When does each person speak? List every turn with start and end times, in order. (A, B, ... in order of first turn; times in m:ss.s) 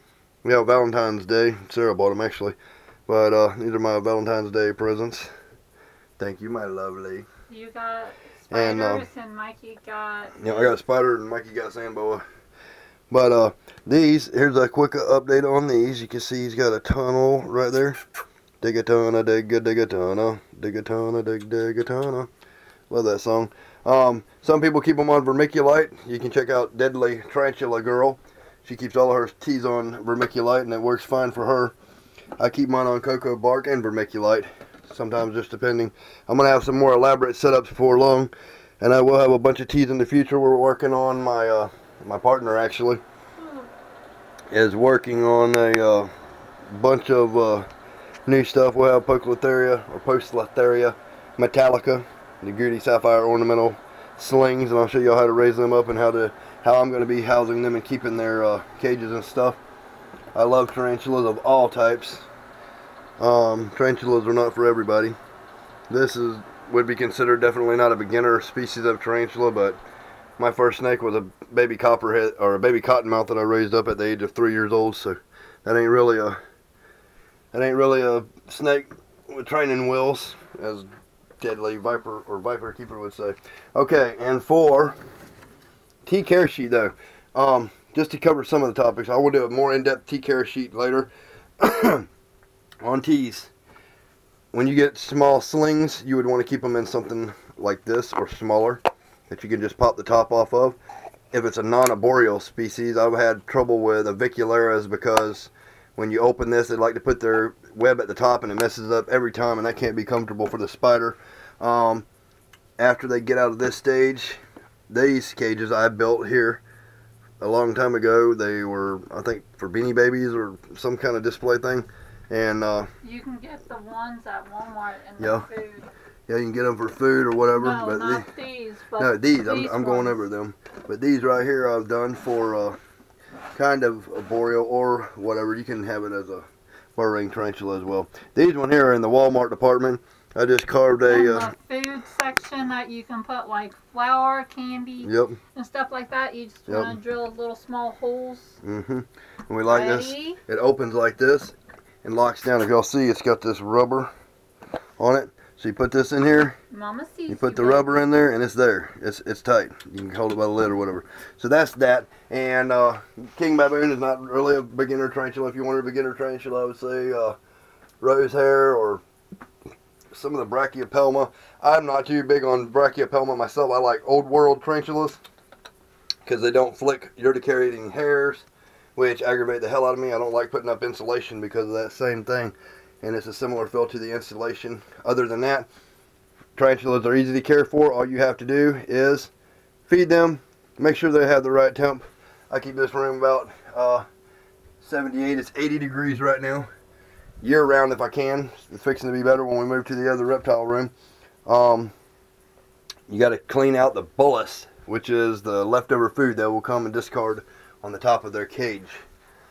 0:00.4-0:02.6 A
0:03.1-0:05.3 A
0:06.2-0:07.3 A
0:07.5-0:10.7 B
0:08.5-0:09.0 A
0:10.4-0:12.2 A
0:13.1-0:18.0 A
0:18.6-0:22.3 A
0:22.9-0:31.7 A
0:32.4-0:43.0 A
0:44.5-0:46.1 A
0:46.7-0:47.7 A
0:48.3-0:59.6 A
1:00.4-1:02.3 A
1:03.2-1:05.2 A
1:05.9-1:09.8 A
1:10.4-1:16.4 A
1:17.5-1:20.9 A
1:21.4-1:25.0 A
1:26.1-1:32.1 A
1:32.8-1:33.5 A
1:34.5-1:40.8 A
1:41.3-1:52.1 A
1:52.8-1:56.6 A
1:57.4-2:02.9 A
2:03.0-2:05.9 B
2:05.2-2:05.4 A
2:06.3-2:08.3 A
2:07.6-2:10.2 B
2:09.0-2:12.8 A
2:13.6-2:21.5 A
2:21.1-2:28.6 B
2:25.0-2:25.4 A
2:26.7-2:27.0 A
2:28.6-2:34.1 A
2:29.7-2:30.4 B
2:35.0-2:36.6 A
2:36.7-2:38.0 B
2:37.3-2:47.4 A
2:48.0-2:49.0 A
2:50.1-2:55.2 A
2:56.2-3:05.7 A
3:06.6-3:09.3 A
3:09.9-3:14.1 A
3:14.8-3:16.7 A
3:17.4-3:20.9 A
3:21.5-3:21.9 A
3:23.1-3:29.0 A